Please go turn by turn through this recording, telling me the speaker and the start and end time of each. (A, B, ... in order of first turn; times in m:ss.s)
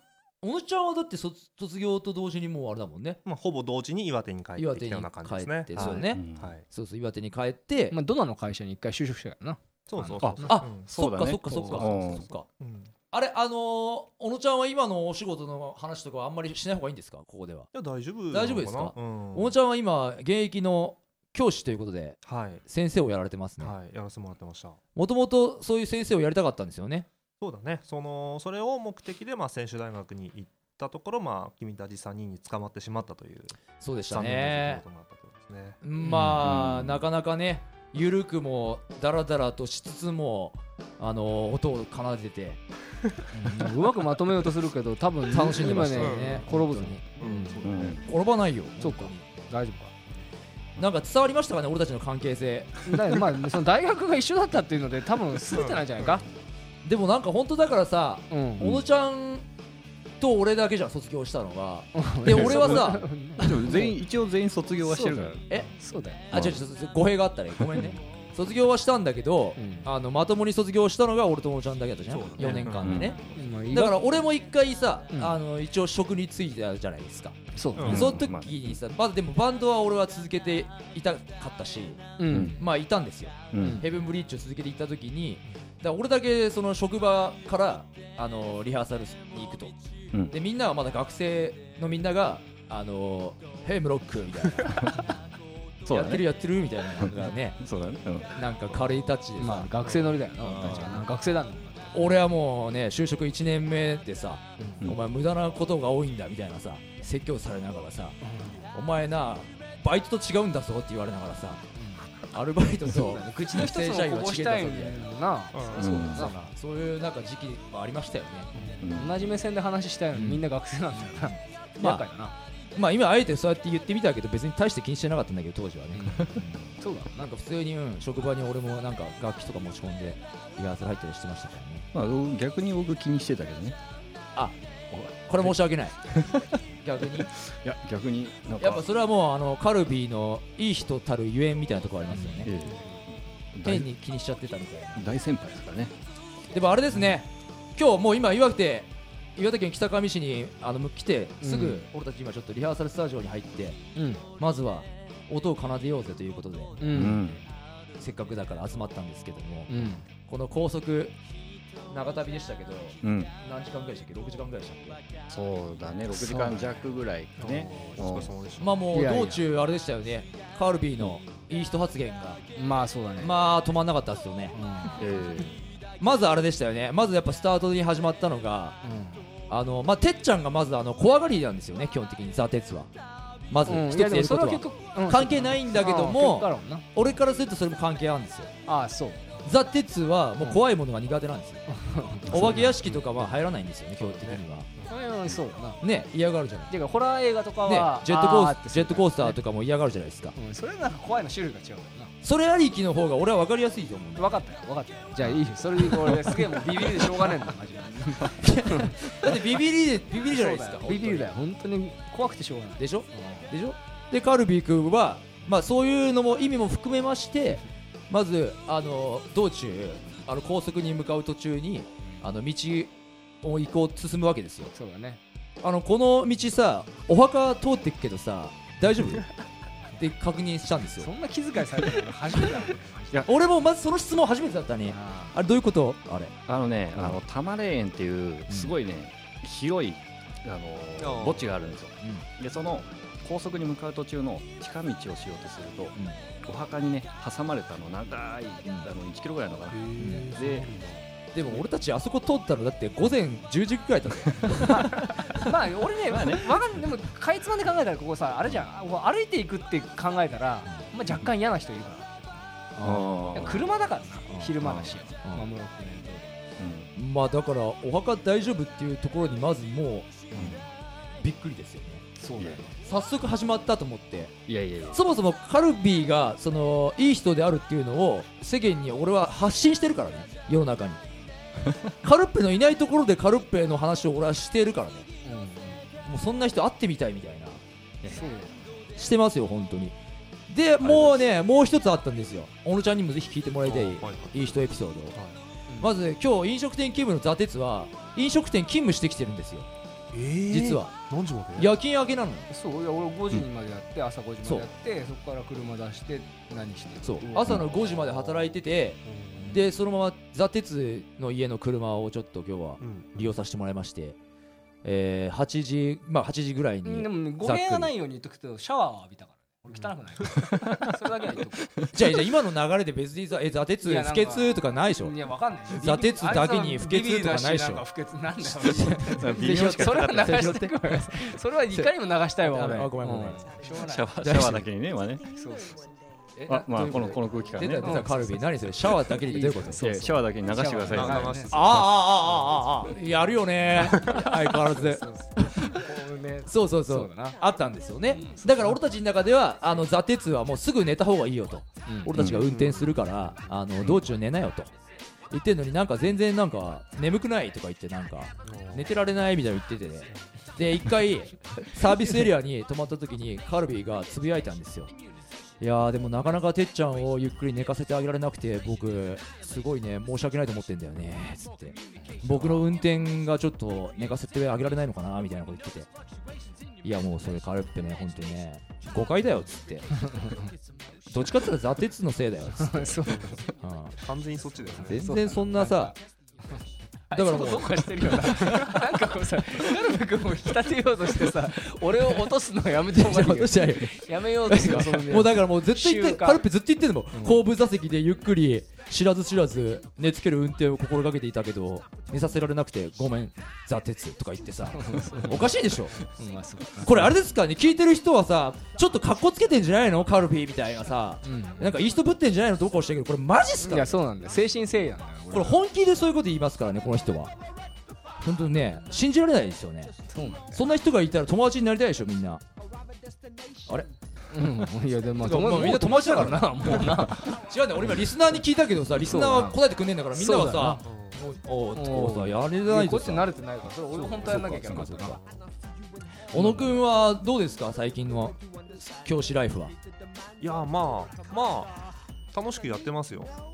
0:00.4-0:03.2 A
0:03.2-0:06.6 B
0:04.6-0:08.0 A
0:05.7-0:06.5 C
0:07.9-0:10.1 D
0:09.9-0:10.9 B
0:10.2-0:12.3 C
0:10.4-0:12.5 A
0:11.6-0:12.9 B
0:13.1-0:17.7 A
0:17.7-0:19.5 B
0:18.3-0:23.7 A
0:22.2-0:22.6 B
0:23.6-0:24.8 B
0:24.9-0:27.1 A
0:27.4-0:33.6 B
0:33.8-0:34.8 A
0:34.1-0:35.8 B
0:35.8-0:42.6 A
0:36.0-0:36.4 D
0:36.4-0:37.0 C
0:43.3-0:47.7 D
0:45.3-0:47.0 A
0:45.9-0:46.5 B
0:47.2-0:48.0 B
0:47.6-0:48.1 C
0:48.0-0:49.2 A
0:48.8-0:50.1 D
0:50.8-0:52.9 A
0:52.8-0:56.2 D
0:55.5-0:56.2 B
0:56.8-0:59.4 A
0:58.3-0:58.7 D
1:00.2-1:03.1 A
1:01.9-1:04.0 D
1:02.3-1:05.4 C
1:04.8-1:06.3 D
1:06.3-1:13.2 A
1:06.3-1:06.6 C
1:09.6-1:09.9 D
1:12.1-1:13.3 B
1:12.4-1:13.3 C
1:13.3-1:14.0 D
1:13.7-1:29.8 A
1:15.1-1:15.4 D
1:17.5-1:18.1 D
1:17.7-1:18.1 B
1:17.8-1:18.8 C
1:22.2-1:22.6 D
1:22.3-1:22.6 C
1:23.5-1:23.8 C
1:23.6-1:23.8 D
1:30.3-1:35.0 A
1:35.8-1:36.2 C
1:35.9-1:37.6 A
1:37.0-1:38.5 C
1:38.3-1:39.7 A
1:39.4-1:42.1 D
1:39.8-1:40.8 B
1:40.4-1:41.0 A
1:41.9-1:48.2 A
1:44.6-1:44.9 D
1:48.2-1:48.7 D
1:48.7-1:51.6 A
1:51.7-1:52.1 D
1:52.3-1:55.1 A
1:52.9-1:56.3 D
1:55.5-1:56.1 B
1:55.7-1:56.3 C
1:55.9-1:58.5 A
1:58.5-1:58.9 B
1:58.8-1:59.3 C
1:58.9-2:02.3 D
2:00.1-2:00.4 A
2:01.8-2:02.0 A
2:02.8-2:11.8 A
2:05.9-2:07.3 D
2:11.9-2:13.8 C
2:14.9-2:16.4 C
2:15.1-2:16.0 A
2:16.8-2:17.3 A
2:17.4-2:18.8 C
2:18.6-2:22.5 A
2:22.1-2:22.5 D
2:22.4-2:23.9 C
2:23.6-2:25.1 A
2:25.0-2:25.9 C
2:26.5-2:33.8 A
2:31.4-2:31.8 D
2:33.9-2:34.2 D
2:34.4-2:37.1 A
2:36.8-2:37.2 D
2:36.9-2:37.4 C
2:38.0-2:39.7 A
2:39.7-2:40.0 D
2:40.2-2:41.2 A
2:41.9-2:45.0 A
2:43.0-2:43.3 C
2:45.3-2:48.3 C
2:46.1-2:46.6 D
2:47.4-2:48.8 B
2:48.6-2:52.4 A
2:48.9-2:49.4 D
2:52.6-2:53.4 D
2:53.2-2:54.6 A
2:54.5-2:55.0 D
2:55.0-2:55.6 C
2:56.0-2:58.8 A
2:58.8-2:59.2 D
2:59.5-3:02.9 A
3:03.5-3:08.5 A
3:03.7-3:06.8 D
3:08.6-3:09.3 D
3:09.4-3:11.6 A
3:11.7-3:13.3 D
3:12.3-3:14.7 A
3:12.3-3:12.6 C
3:14.0-3:14.9 B
3:14.8-3:15.8 D
3:15.8-3:16.7 A
3:16.7-3:19.4 D
3:17.6-3:20.4 A
3:20.4-3:22.1 D
3:22.2-3:24.4 A
3:24.2-3:29.4 D
3:25.2-3:27.0 A
3:28.3-3:31.3 A
3:30.2-3:33.5 D
3:32.8-3:44.7 A
3:44.7-3:45.2 D
3:45.6-3:49.3 A
3:50.0-3:51.1 A
3:51.0-3:53.2 D
3:53.3-3:56.3 A
3:54.9-3:55.3 D
3:56.5-4:05.9 C
3:58.5-3:58.7 A
4:01.0-4:01.6 B
4:06.4-4:10.7 C
4:09.7-4:11.0 B
4:10.0-4:10.3 A
4:11.3-4:15.5 A
4:14.5-4:22.4 D
4:16.0-4:16.8 C
4:22.8-4:23.6 A
4:22.8-4:23.7 C
4:23.3-4:26.3 D
4:24.3-4:24.5 A
4:24.6-4:25.0 C
4:26.6-4:26.9 C
4:26.9-4:30.6 A
4:30.3-4:30.6 C
4:31.2-4:32.0 A
4:32.2-4:32.8 D
4:32.4-4:32.7 C
4:32.8-4:34.4 A
4:34.5-4:35.0 C
4:34.9-4:41.0 A
4:42.0-4:45.1 A
4:45.2-4:45.9 D
4:46.0-4:47.6 A
4:48.1-4:48.6 D
4:49.0-4:50.0 A
4:50.5-4:55.2 A
4:50.9-4:51.1 C
4:53.6-4:54.6 B
4:55.1-4:55.4 B
4:55.8-4:59.7 A
5:00.1-5:01.7 B
5:00.5-5:01.0 A
5:01.5-5:02.5 A
5:02.5-5:07.6 D
5:07.0-5:14.2 A
5:07.3-5:09.6 B
5:09.4-5:09.6 D
5:12.8-5:13.4 B
5:14.8-5:17.9 A
5:16.8-5:21.8 D
5:19.7-5:20.3 B
5:20.4-5:20.9 C
5:21.9-5:25.2 A
5:23.8-5:34.2 D
5:25.7-5:27.8 A
5:28.4-5:33.5 A
5:29.0-5:30.5 C
5:33.7-5:35.3 C
5:34.2-5:34.7 A
5:35.3-5:35.8 D
5:36.4-5:39.8 A
5:36.4-5:38.1 C
5:37.8-5:38.2 D
5:39.2-5:41.7 D
5:39.8-5:41.9 C
5:40.9-5:42.9 B
5:41.5-5:45.8 A
5:43.8-5:44.3 B
5:43.8-5:47.4 D
5:46.4-5:54.7 A
5:48.1-5:48.8 D
5:51.8-5:52.1 D
5:52.1-5:52.4 C
5:52.3-5:53.3 B
5:55.3-6:04.9 A
5:58.4-5:58.9 B
6:05.6-6:15.9 A
6:16.8-6:20.0 A
6:19.9-6:20.5 D
6:21.0-6:23.0 A
6:22.6-6:23.4 D
6:23.1-6:23.4 B
6:23.6-6:24.0 A
6:24.0-6:25.1 B
6:24.8-6:25.9 A
6:24.8-6:25.9 D
6:27.1-6:36.4 D
6:27.1-6:28.8 A
6:32.9-6:46.1 A
6:37.1-6:37.4 D
6:44.7-6:47.1 D
6:46.8-6:54.0 A
6:51.2-6:51.8 D
6:53.6-6:55.6 D
6:55.3-6:57.3 A
6:58.2-7:00.0 A
7:00.1-7:00.6 D
7:00.5-7:02.4 A
7:04.3-7:08.0 D
7:05.2-7:13.3 A
7:09.0-7:09.6 D
7:10.1-7:10.8 D
7:10.8-7:11.2 B
7:11.7-7:15.2 D
7:14.1-7:15.2 A
7:15.0-7:15.4 B
7:16.3-7:19.7 A
7:16.4-7:16.6 D
7:20.4-7:21.8 B
7:22.3-7:23.3 B